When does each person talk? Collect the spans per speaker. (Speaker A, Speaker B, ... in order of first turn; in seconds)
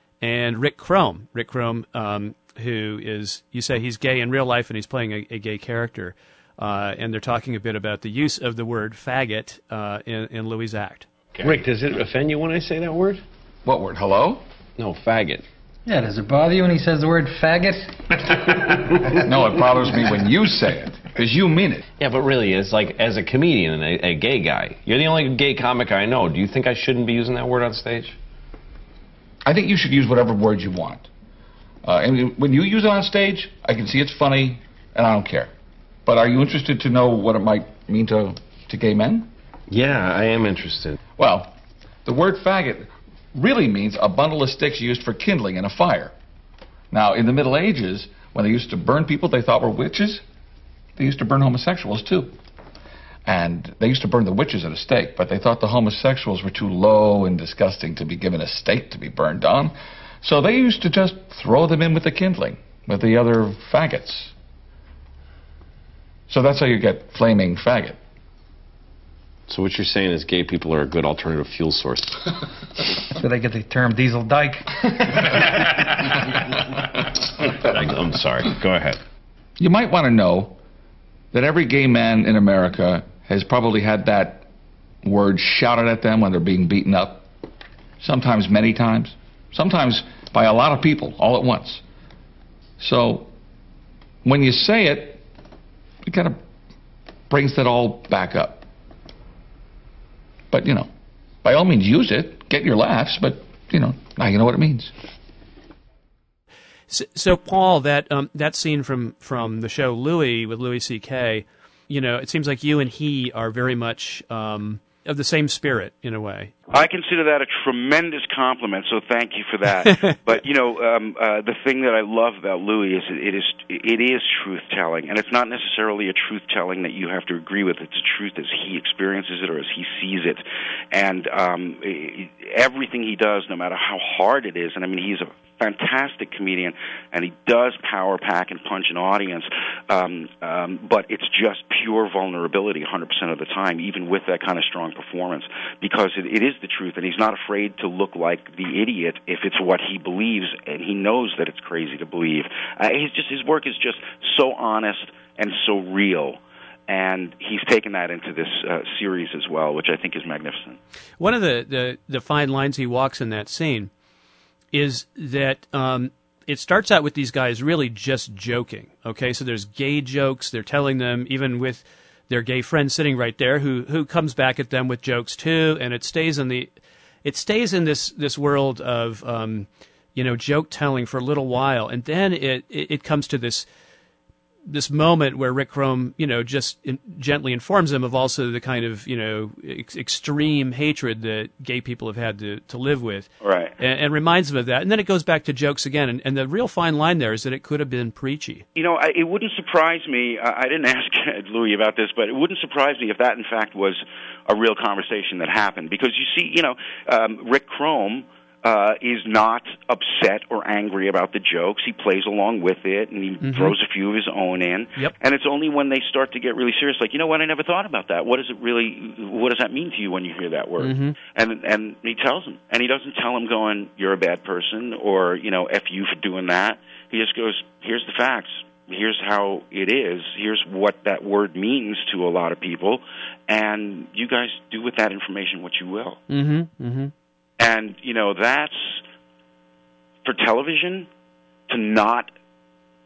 Speaker A: 0.2-11.1, 106.9-116.7, 119.8-120.2, 161.2-163.9, 164.7-176.7, 177.2-183.7, 184.7-198.6, 213.4-213.8, 220.8-221.2, 236.3-237.1
Speaker B: 11.3-13.2, 14.8-15.4, 22.0-28.1, 39.7-41.0, 69.5-72.4, 77.4-79.0
Speaker C: 13.6-14.4, 19.1-21.8, 29.4-31.1, 31.8-35.5, 36.0-39.3, 41.2-41.5, 42.0-46.1, 46.9-50.2, 51.0-52.3, 53.2-64.3, 66.3-68.0, 79.6-80.6, 81.3-84.5, 85.0-87.2, 88.0-91.8, 92.8-93.3, 94.2-95.2, 96.0-96.4, 97.3-98.7, 100.5-100.9, 101.4-104.9
Speaker D: 15.8-18.7, 73.2-75.6
Speaker E: 116.7-160.8, 193.4-193.8, 198.7-236.2, 237.6-239.0, 240.2-241.1, 241.7-242.3